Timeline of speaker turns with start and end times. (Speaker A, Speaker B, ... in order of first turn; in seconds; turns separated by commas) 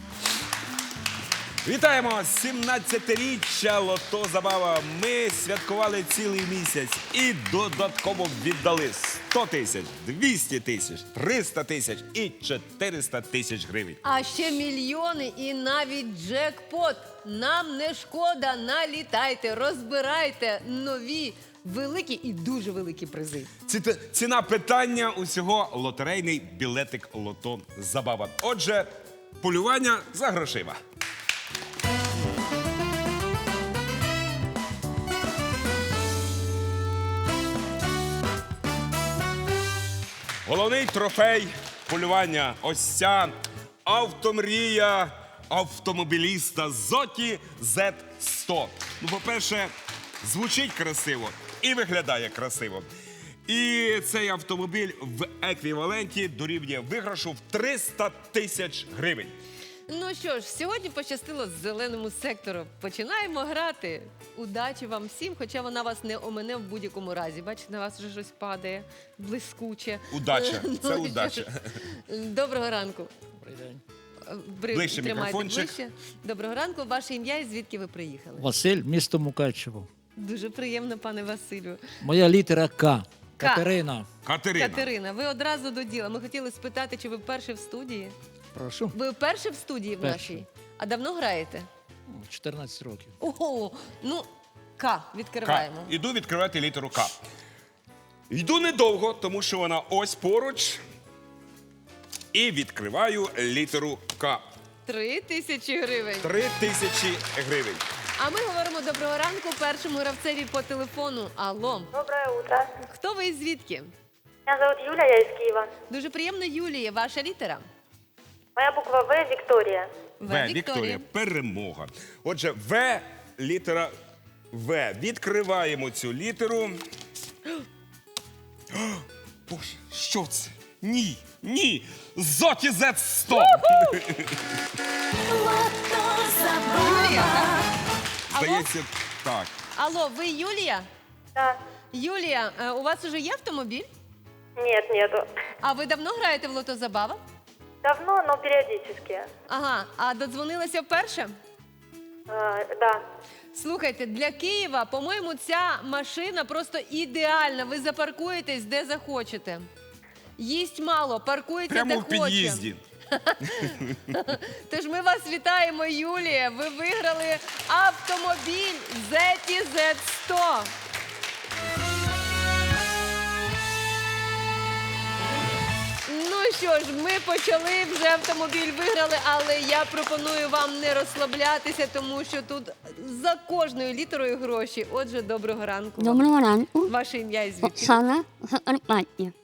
Speaker A: 1.6-14.0, Speaker B: 14.0-23.5, Speaker A: 23.6-30.8, Speaker A: 40.4-43.3, Speaker A: 43.8-52.9, Speaker A: 53.5-59.4, Speaker B: 59.9-73.1, Speaker A: 70.1-71.8, Speaker C: 73.4-73.8, Speaker B: 74.2-78.5, Speaker A: 74.7-75.8, Speaker C: 78.4-79.9, Speaker B: 80.2-81.8, Speaker C: 82.0-84.0, Speaker B: 83.4-83.7, Speaker A: 84.2-84.9, Speaker B: 84.5-88.1, Speaker C: 88.5-88.9, Speaker B: 88.9-91.7, Speaker C: 90.0-90.4, Speaker C: 92.1-93.1, Speaker B: 93.2-94.3, Speaker B: 94.8-95.9, Speaker A: 95.4-97.2, Speaker A: 98.3-100.8, Speaker A: 102.3-104.5, Speaker B: 104.8-106.3, Speaker A: 106.2-107.8, Speaker B: 108.2-111.9, Speaker D: 111.9-112.7, Speaker B: 112.8-113.9, Speaker D: 114.5-115.7, Speaker B: 115.9-117.6, Speaker D: 118.5-119.9, Speaker B: 120.2-121.0, Speaker A: 120.2-123.9, Speaker A: 124.5-126.8, Speaker A: 128.7-134.4, Speaker B: 133.3-134.0, Speaker E: 135.2-137.6, Speaker B: 136.8-137.5, Speaker A: 138.3-139.5, Speaker B: 138.3-138.7, Speaker B: 139.8-140.9, Speaker B: 141.9-143.9, Speaker D: 144.6-145.2, Speaker B: 145.6-147.2, Speaker D: 147.8-149.3, Speaker B: 149.5-151.3, Speaker D: 152.3-153.0, Speaker B: 153.5-159.6, Speaker B: 160.4-170.7, Speaker A: 161.7-162.8, Speaker A: 163.6-163.9, Speaker B: 176.1-186.3, Speaker E: 186.0-186.9, Speaker B: 186.8-188.0, Speaker E: 187.6-189.3